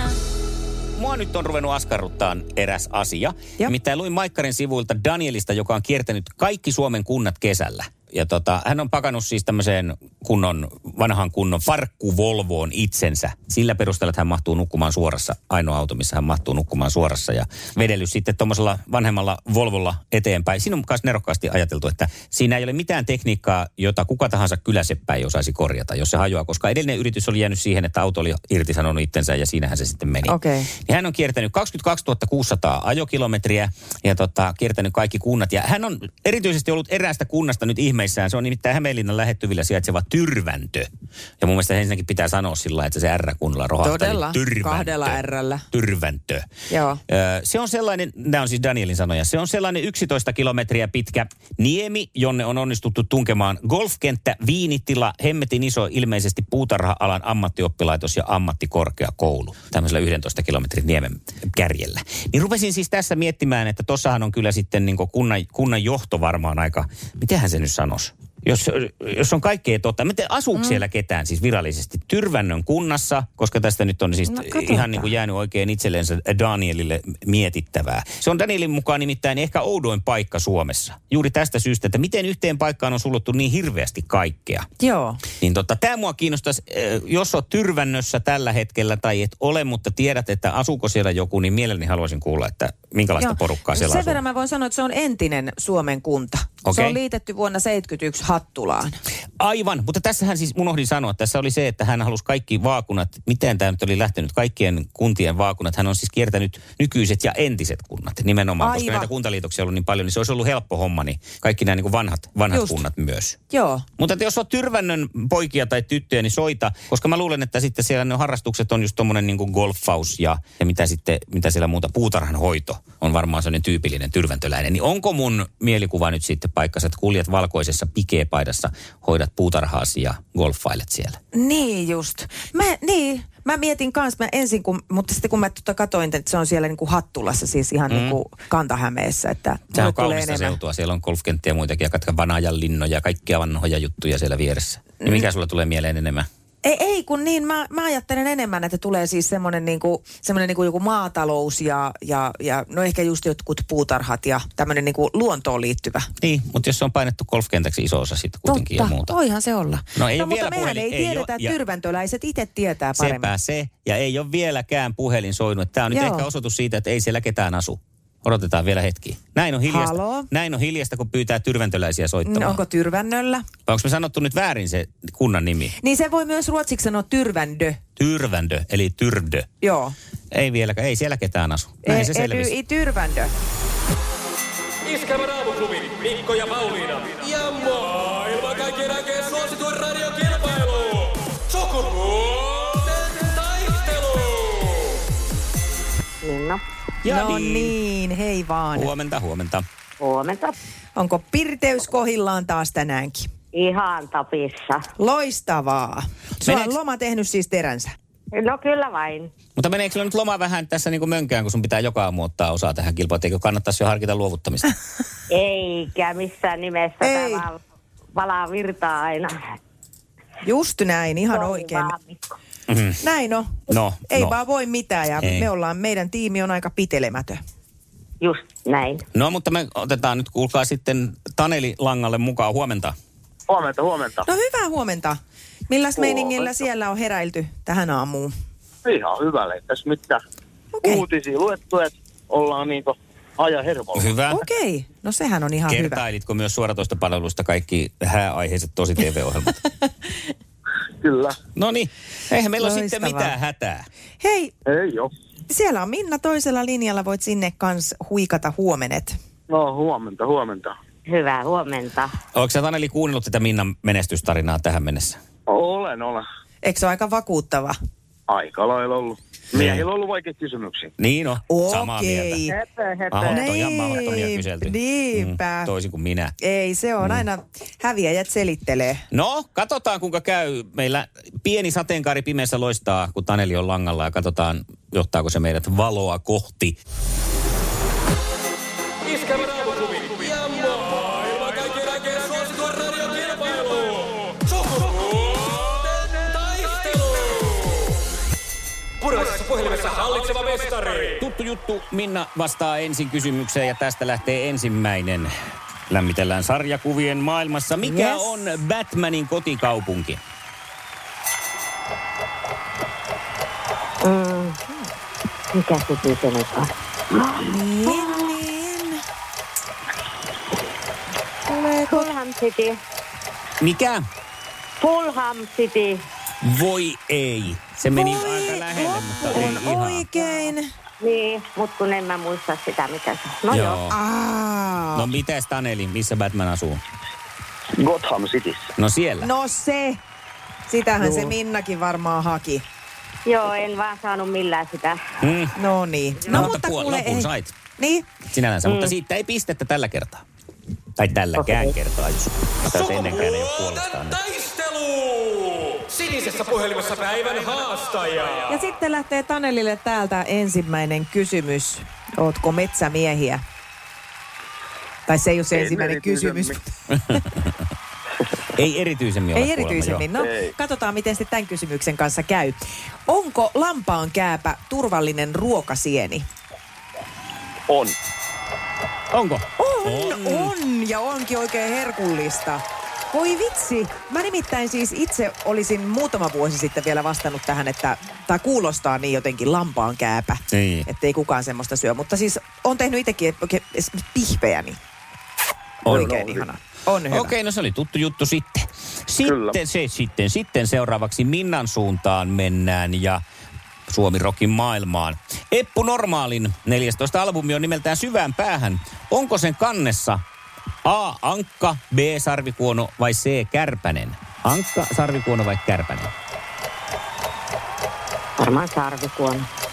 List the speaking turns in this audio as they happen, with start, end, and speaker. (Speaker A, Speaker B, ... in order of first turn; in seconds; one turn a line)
Speaker A: 1.0-40.9
Speaker B: 30.2-30.7
Speaker A: 41.4-46.5
Speaker B: 43.8-45.6
Speaker B: 46.7-47.0
Speaker A: 47.1-84.7
Speaker B: 70.6-70.8
Speaker B: 74.3-75.1
Speaker B: 84.8-85.2
Speaker A: 85.4-94.2
Speaker B: 93.2-99.0
Speaker A: 96.7-97.0
Speaker A: 99.4-113.4
Speaker B: 108.6-109.1
Speaker B: 112.5-112.8
Speaker B: 113.5-113.8
Speaker A: 114.0-131.2
Speaker B: 131.3-140.6
Speaker A: 137.9-138.2
Speaker A: 139.7-146.3
Speaker B: 146.6-156.1
Speaker A: 156.2-159.2
Speaker B: 158.4-163.3
Speaker A: 159.9-161.6
Speaker A: 162.9-172.6
Speaker B: 165.9-166.3
Speaker B: 169.7-170.3
Speaker B: 172.2-173.4
Speaker A: 173.7-175.8
Speaker B: 175.8-177.8
Speaker A: 178.0-179.5
Speaker B: 179.6-179.9
Speaker A: 180.3-182.5
Speaker B: 181.8-183.3
Speaker C: 184.9-194.3
Speaker D: 196.2-196.6
Speaker A: 197.0-197.7
Speaker B: 197.1-198.9
Speaker A: 198.7-199.6
Speaker D: 200.0-200.6
Speaker B: 200.9-203.3
Speaker D: 203.5-204.8
Speaker B: 205.0-207.9
Speaker A: 206.4-206.8
Speaker D: 208.3-209.3
Speaker A: 209.6-214.7
Speaker D: 215.3-217.6
Speaker B: 217.0-217.4
Speaker D: 218.1-219.3
Speaker B: 220.4-221.9
Speaker D: 221.3-222.2
Speaker A: 222.7-223.0
Speaker B: 223.0-227.4
Speaker A: 223.7-224.4
Speaker A: 225.2-225.5
Speaker D: 228.2-229.0
Speaker A: 229.1-232.9
Speaker E: 233.5-234.2
Speaker B: 234.2-238.3
Speaker E: 236.0-236.4
Speaker E: 238.8-240.2
Speaker B: 240.8-241.0
Speaker E: 240.8-244.1
Speaker A: 243.9-244.4
Speaker B: 244.3-246.0
Speaker A: 245.7-249.6
Speaker E: 251.0-251.4
Speaker A: 251.6-253.8
Speaker B: 252.6-253.3
Speaker B: 254.2-254.5
Speaker E: 254.7-255.1
Speaker B: 255.5-259.1
Speaker E: 259.5-260.7
Speaker D: 261.1-262.1
Speaker A: 262.3-265.2
Speaker E: 265.5-266.2
Speaker B: 266.6-267.8
Speaker E: 268.3-270.9
Speaker A: 269.5-269.9
Speaker A: 271.0-272.4
Speaker B: 271.5-272.6
Speaker E: 272.5-273.4
Speaker A: 273.1-276.3
Speaker B: 273.2-275.7
Speaker B: 276.4-279.0
Speaker A: 277.0-277.2
Speaker A: 279.1-286.8
Speaker C: 289.1-294.1
Speaker C: 296.4-297.0
Speaker C: 299.1-300.9
Speaker A: 301.2-305.3
Speaker A: 305.9-310.2
Speaker B: 307.8-308.4
Speaker D: 314.0-314.6
Speaker D: 315.5-318.1
Speaker B: 317.4-319.0
Speaker B: 321.4-322.1
Speaker D: 321.9-322.8
Speaker A: 323.6-324.0
Speaker D: 324.8-326.0
Speaker A: 326.4-330.1
Speaker B: 327.9-330.7
Speaker D: 331.0-333.8
Speaker A: 333.5-334.0
Speaker B: 333.9-335.1
Speaker A: 334.9-336.8
Speaker E: 337.7-338.7
Speaker A: 338.8-339.3
Speaker B: 339.2-340.0
Speaker B: 340.7-342.6
Speaker D: 343.2-345.0
Speaker A: 345.2-345.6
Speaker B: 345.5-348.1
Speaker A: 346.2-347.5
Speaker A: 348.3-350.2
Speaker D: 348.6-348.9
Speaker A: 351.0-354.3
Speaker D: 351.4-351.7
Speaker C: 355.9-358.3
Speaker B: 358.5-363.4
Speaker B: 365.1-367.1
Speaker E: 365.5-366.6
Speaker A: 367.0-367.5
Speaker A: 368.5-370.1
Speaker B: 369.3-376.2
Speaker E: 370.2-370.5
Speaker E: 377.7-377.9
Speaker A: 379.1-380.5
Speaker B: 379.6-394.8
Speaker A: 390.5-390.9
Speaker A: 395.8-396.3
Speaker B: 395.8-397.3
Speaker E: 395.9-396.4
Speaker A: 397.1-403.2
Speaker E: 399.2-399.6
Speaker A: 403.9-410.2
Speaker A: 410.8-416.1
Speaker D: 418.4-419.5